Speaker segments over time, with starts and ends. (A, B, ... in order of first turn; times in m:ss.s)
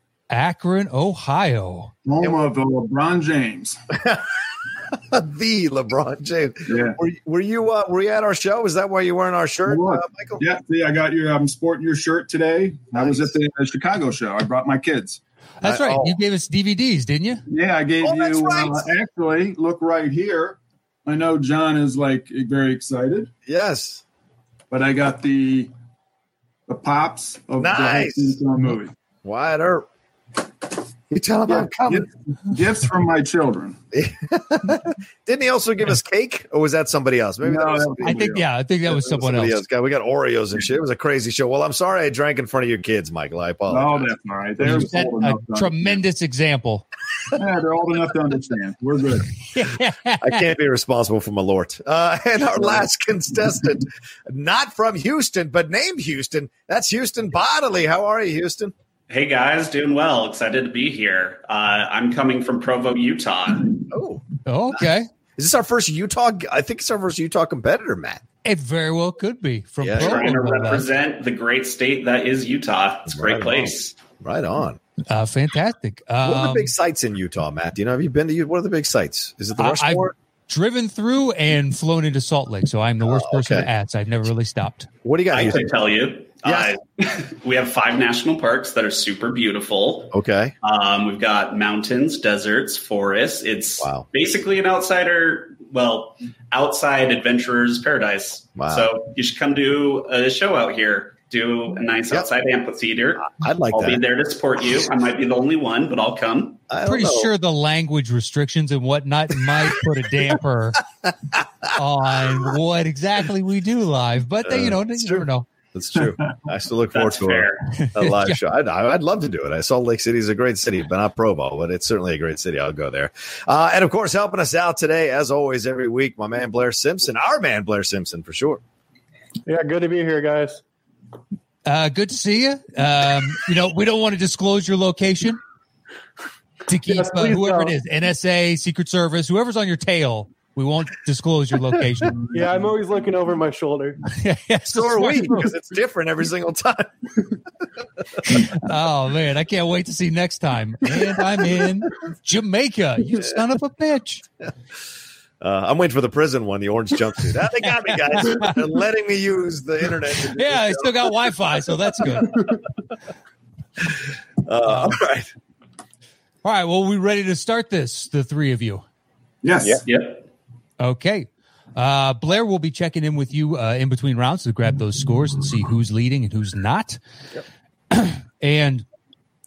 0:00.3-0:01.9 A
0:02.0-0:03.8 B
0:02.2-0:02.5 C
0:04.9-0:10.4 C
0:06.7-0:07.0 B
0:09.7-0:15.2 B
0:13.0-0:13.4 C
0:15.6-0:17.4 A
0:15.6-0:16.2 C
0:17.5-0:23.3 B
0:18.0-0:18.9 C
0:23.5-0:24.0 C
0:24.7-0:25.7 B
0:26.7-0:28.9 B
0:27.6-0:28.4 C
0:29.2-0:29.9 C
0:31.1-0:32.1 C
0:31.5-0:33.8 B
0:33.9-0:38.2 C
0:37.4-0:38.5 B
0:38.0-0:39.6 A
0:38.9-0:44.1 C
0:43.7-0:46.0 B
0:44.6-0:46.9 A
0:47.3-0:49.3 B
0:49.4-0:50.4 A
0:50.2-0:58.7 C
0:59.1-1:03.8 D
1:03.9-1:04.8 C
1:04.5-1:05.1 A
1:05.4-1:08.2 C
1:08.4-1:10.9 A
1:09.8-1:10.4 C
1:10.0-1:14.0 D
1:13.1-1:13.6 C
1:14.2-1:14.8 C
1:15.1-1:16.7 A
1:16.2-1:20.1 C
1:19.6-1:24.9 A
1:23.0-1:23.7 C
1:25.0-1:25.7 C
1:25.3-1:46.6 D
1:26.4-1:26.7 C
1:30.1-1:30.5 C
1:38.6-1:38.9 C
1:43.2-1:44.0 C
1:46.7-1:47.3 C
1:46.8-1:50.8 A
1:51.7-1:55.5 A
1:54.4-2:08.6 C
1:56.9-1:57.7 D
1:57.8-1:58.4 A
2:09.5-2:10.6 E
2:11.6-2:15.4 A
2:16.7-2:22.2 A
2:16.9-2:17.8 E
2:22.3-2:24.0 E
2:24.1-2:25.5 A
2:24.7-2:27.1 C
2:28.2-2:34.2 A
2:35.4-2:41.1 C
2:38.3-2:38.5 A
2:40.3-2:42.4 A
2:44.4-2:45.3 C
2:44.7-2:44.9 A
2:46.4-2:48.8 A
2:49.4-2:49.8 B
2:49.9-2:50.2 D
2:50.8-2:57.0 A
2:57.9-2:58.8 A